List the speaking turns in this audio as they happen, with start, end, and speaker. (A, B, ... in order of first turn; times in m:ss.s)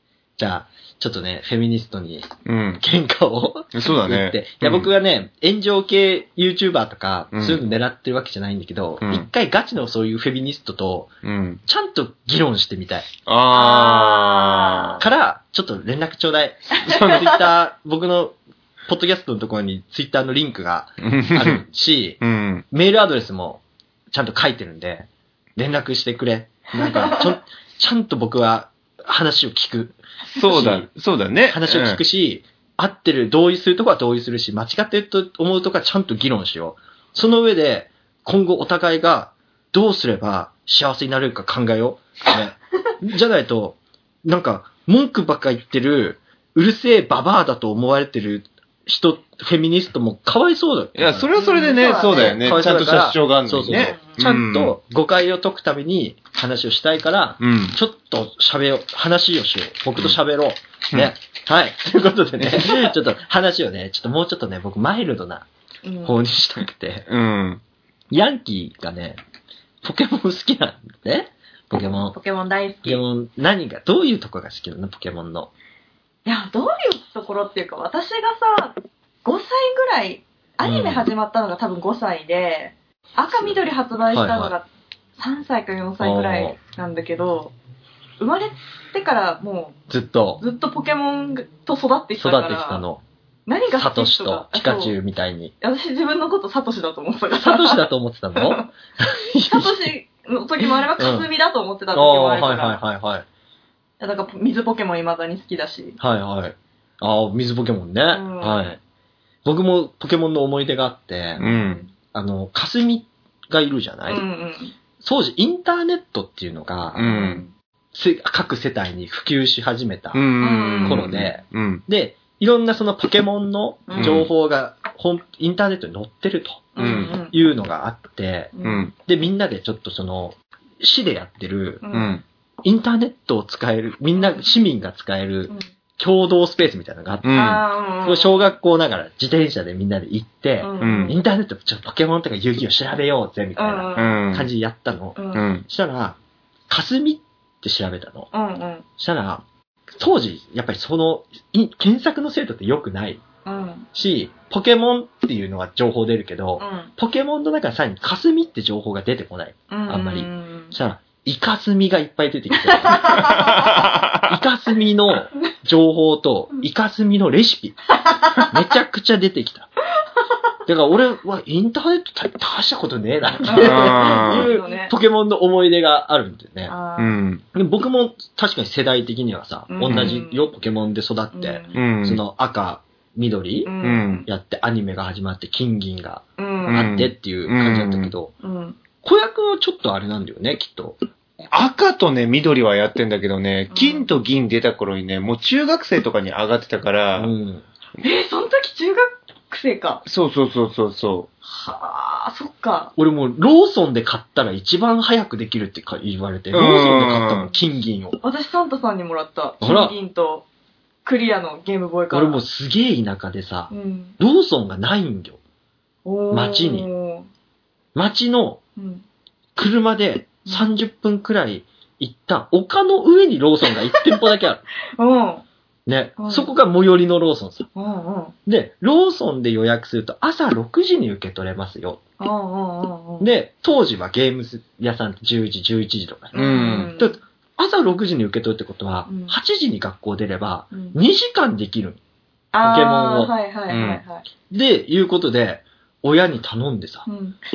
0:00.4-0:11.1 A
0:02.5-0:02.8 B
0:03.7-0:04.9 B
0:07.3-0:07.6 B
0:09.0-0:09.3 B
0:11.2-0:11.6 B
0:11.7-0:13.1 A
0:13.3-0:15.0 B
0:13.5-0:15.0 C
0:15.0-0:18.4 A
0:16.9-0:17.1 B
0:16.9-0:17.3 C
0:18.9-0:22.2 A
0:21.0-0:21.6 B
0:22.2-0:22.6 B
0:22.7-0:30.9 A
0:27.0-0:27.3 C
0:30.3-0:32.0 B
0:31.5-0:51.3 A
0:51.0-0:54.8 B
0:51.4-0:52.2 C
0:52.0-1:05.5 A
0:53.7-0:54.2 C
0:57.4-0:57.8 B
1:02.4-1:02.9 B
1:05.8-1:06.2 C
1:06.0-1:07.1 A
1:07.1-1:07.6 B
1:08.1-1:09.2 A
1:09.8-1:12.2 A
1:11.8-1:13.0 C
1:12.9-1:15.5 A
1:16.3-1:24.6 C
1:20.6-1:21.1 A
1:23.3-1:23.6 A
1:24.1-1:24.5 A
1:25.2-1:27.5 C
1:26.0-1:26.6 A
1:28.2-1:29.8 C
1:29.9-1:30.4 A
1:30.4-1:32.8 C
1:32.2-1:33.0 A
1:33.5-1:35.0 C
1:33.7-1:35.5 A
1:35.6-1:38.7 C
1:37.4-1:39.9 A
1:39.4-1:42.8 C
1:41.0-1:41.3 A
1:41.9-1:43.3 A
1:44.0-1:46.0 C
1:46.0-1:48.8 A
1:48.1-1:48.8 C
1:49.4-1:51.4 A
1:51.4-1:51.9 C
1:51.4-1:51.8 B
1:52.1-1:54.2 A
1:54.1-1:54.8 C
1:55.0-1:57.1 A
1:56.9-1:57.4 B
1:57.0-1:57.5 C
1:57.9-2:00.3 A
2:00.1-2:01.8 B
2:00.4-2:01.1 C
2:00.8-2:06.8 A
2:03.9-2:04.2 C
2:04.0-2:04.3 B
2:06.8-2:07.4 C
2:06.8-2:07.2 B
2:07.3-2:11.8 A
2:08.6-2:08.9 C
2:08.6-2:08.9 B
2:11.8-2:12.2 C
2:11.9-2:12.2 B
2:12.6-2:17.3 A
2:17.2-2:17.6 B
2:17.3-2:18.5 C
2:18.0-2:26.2 A
2:20.6-2:21.2 C
2:20.8-2:21.2 B
2:23.6-2:24.2 C
2:24.0-2:24.5 B
2:25.2-2:25.4 C
2:25.3-2:25.7 B
2:26.7-2:28.3 A
2:28.3-2:28.8 C
2:29.0-2:29.4 A
2:30.0-2:33.2 A
2:33.4-2:33.9 C
2:33.9-2:43.6 A
2:36.6-2:36.9 C
2:39.7-2:40.8 C
2:42.7-2:43.8 C
2:43.0-2:44.3 B
2:44.2-2:47.9 A
2:48.1-2:48.4 C
2:48.4-2:49.7 A
2:50.7-2:56.7 A
2:53.4-2:54.9 C
2:53.5-2:54.5 B
2:56.7-2:57.2 C
2:57.0-2:57.4 B
2:57.5-3:03.7 A
2:59.7-3:00.4 C
2:59.8-3:00.2 B
3:01.3-3:01.8 C
3:01.7-3:02.2 B
3:03.6-3:04.3 C
3:03.8-3:04.2 B
3:04.3-3:08.3 A
3:06.4-3:06.9 C
3:06.7-3:08.1 B
3:08.4-3:08.8 C
3:09.0-3:11.0 A
3:11.5-3:17.3 B
3:13.7-3:14.1 C
3:17.2-3:17.6 A
3:18.0-3:20.0 C
3:20.1-3:21.3 B
3:21.5-3:22.9 C
3:23.0-3:28.2 A
3:26.5-3:27.5 B
3:28.2-3:30.5 C
3:29.6-3:30.0 A
3:31.0-3:32.4 C
3:32.1-3:35.4 A
3:33.7-3:34.2 C
3:36.0-3:37.3 C
3:36.3-3:36.9 A
3:38.0-3:38.6 A
3:38.8-3:39.0 C
3:39.6-3:44.6 A
3:43.7-3:44.3 C
3:45.0-3:45.4 C
3:45.9-3:47.7 A
3:46.2-3:46.5 C
3:47.8-3:48.4 C
3:48.5-3:52.0 A
3:52.2-3:53.3 C
3:53.2-4:02.0 A
3:56.3-3:56.9 B
3:56.3-3:57.2 C
3:59.1-3:59.3 C
4:02.5-4:04.2 C
4:02.6-4:03.3 A
4:03.7-4:04.0 B
4:04.5-4:07.1 A
4:07.1-4:07.4 C